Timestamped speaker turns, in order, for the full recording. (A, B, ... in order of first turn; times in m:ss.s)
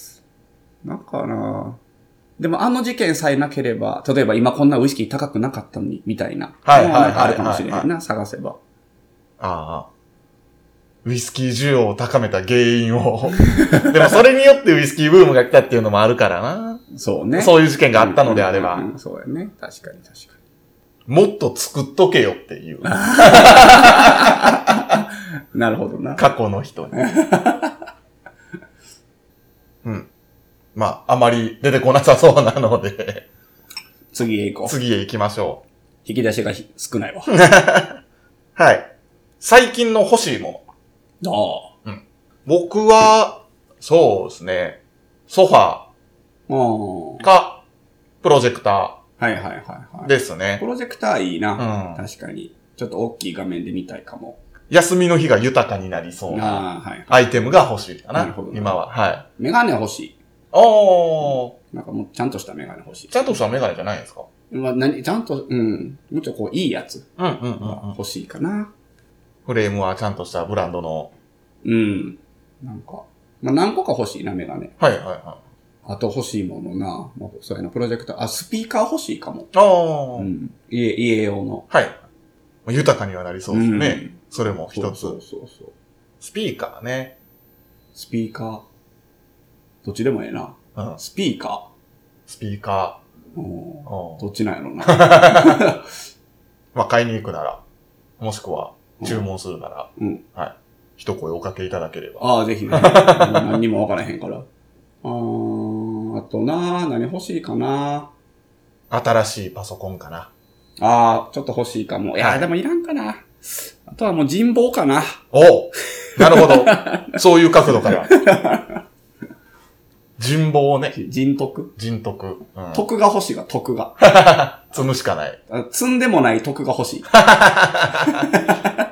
0:00.8-0:01.8 A
0:02.4-0:08.6 A
0:06.6-0:07.9 B
0:09.4-0:09.9 B
0:11.0-0:16.8 B
0:13.4-0:14.1 A
0:16.9-0:20.4 A
0:17.4-0:18.9 B
0:21.1-0:24.6 B
0:22.8-0:26.2 A
0:26.2-0:26.9 B
0:26.9-0:27.8 A
0:29.8-0:30.1 B
0:30.7-0:33.2 B
0:34.1-0:34.7 A
0:34.6-0:35.6 B
0:36.0-0:37.3 A
0:37.3-0:38.0 B
0:38.6-0:38.9 B
0:39.4-0:40.6 B
0:41.2-0:41.7 A
0:41.8-0:45.9 B
0:46.5-0:47.2 A
0:47.2-0:47.6 B
0:48.2-0:49.0 B
0:49.2-0:54.4 A
0:50.0-0:50.6 B
0:51.6-0:52.0 B
0:54.7-0:59.2 B
0:56.3-0:57.4 A
0:58.1-0:58.8 A
0:59.4-1:00.1 A
1:00.5-1:01.5 B
1:01.7-1:03.4 A
1:03.1-1:04.3 B
1:04.5-1:07.1 A
1:07.2-1:08.0 B
1:07.6-1:08.7 A
1:09.4-1:11.1 B
1:11.6-1:14.7 A
1:14.8-1:15.4 B
1:15.8-1:19.5 A
1:19.5-1:20.3 B
1:20.2-1:21.6 A
1:21.7-1:22.0 B
1:22.6-1:25.2 B
1:23.5-1:24.2 A
1:24.7-1:25.7 A
1:26.2-1:27.1 B
1:27.9-1:28.6 A
1:29.8-1:31.7 A
1:32.3-1:33.0 B
1:33.4-1:35.9 A
1:33.9-1:34.2 B
1:34.8-1:35.6 B
1:36.7-1:37.6 B
1:38.2-1:43.6 B
1:40.0-1:40.2 A
1:42.2-1:44.5 A
1:45.0-1:48.1 A
1:48.9-1:50.3 B
1:50.8-1:55.2 A
1:52.2-1:52.5 B
1:55.3-1:58.1 B
1:56.2-1:58.8 A
2:00.2-2:01.0 B
2:00.9-2:01.7 A
2:01.8-2:02.8 B
2:02.7-2:04.0 A
2:04.0-2:05.4 B
2:05.5-2:07.1 A
2:07.1-2:08.2 B
2:07.9-2:08.8 A